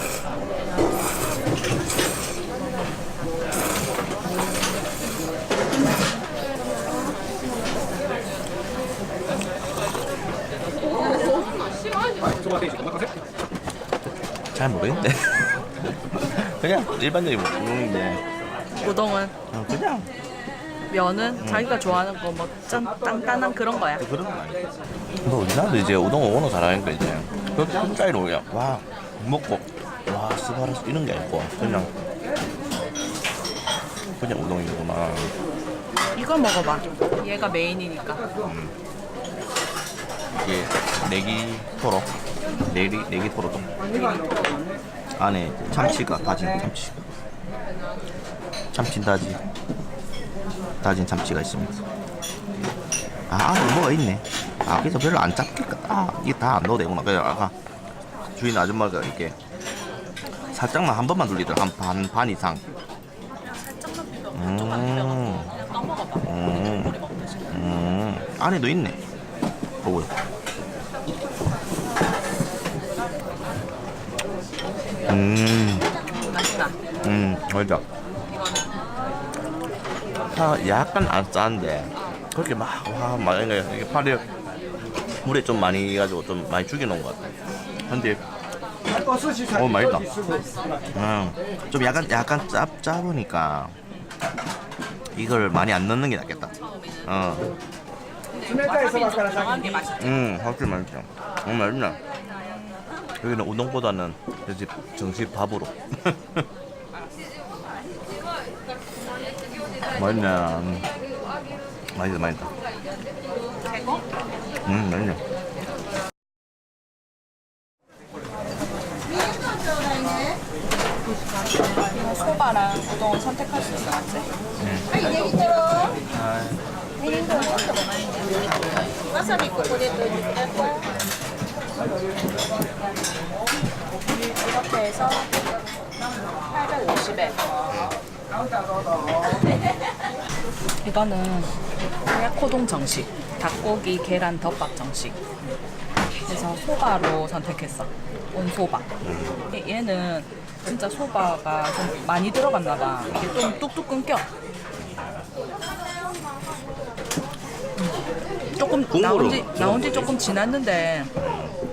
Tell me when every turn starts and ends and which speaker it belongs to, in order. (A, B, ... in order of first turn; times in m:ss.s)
0:14.5-0:18.2 A
0:18.8-0:19.4 B
0:19.5-0:20.1 A
0:20.9-0:24.1 B
0:21.4-0:21.7 A
0:24.0-0:24.7 A
0:25.2-0:31.9 A
0:34.2-0:35.3 A
0:36.2-0:38.3 B
0:38.4-0:38.7 A
0:40.4-0:42.1 A
0:42.6-0:43.7 A
0:43.9-0:44.4 B
0:45.2-0:47.1 A
0:48.7-0:49.4 A
0:50.8-0:51.8 A
0:53.3-0:57.5 A
0:58.3-0:59.4 A
1:00.5-1:02.6 A
1:03.4-1:07.6 B
1:04.3-1:05.5 A
1:06.2-1:07.0 A
1:07.5-1:09.0 A
1:09.8-1:10.1 A
1:15.1-1:15.9 A
1:16.3-1:16.8 B
1:17.0-1:17.8 A
1:20.3-1:24.2 A
1:25.2-1:27.2 A
1:27.8-1:28.2 A
1:29.4-1:30.2 A
1:30.2-1:30.8 B
1:30.9-1:33.8 A
1:35.2-1:37.6 A
1:38.3-1:40.2 B
1:39.9-1:42.0 A
1:43.2-1:46.4 A
1:49.9-1:50.9 A
1:51.9-1:52.5 A
1:53.6-1:54.0 B
1:54.6-1:55.2 A
2:01.8-2:04.3 B
2:04.6-2:05.1 A
2:05.6-2:05.9 B
2:06.0-2:06.6 A
2:07.0-2:08.3 B
2:09.1-2:10.8 B
2:14.2-2:15.3 B
2:16.5-2:17.4 B
2:17.7-2:18.0 A
2:20.8-2:21.5 B
2:22.1-2:25.2 B
2:26.3-2:28.9 B
2:29.0-2:29.4 A
2:29.5-2:34.3 B
2:38.6-2:41.1 B
2:38.9-2:40.2 A
2:41.2-2:41.6 A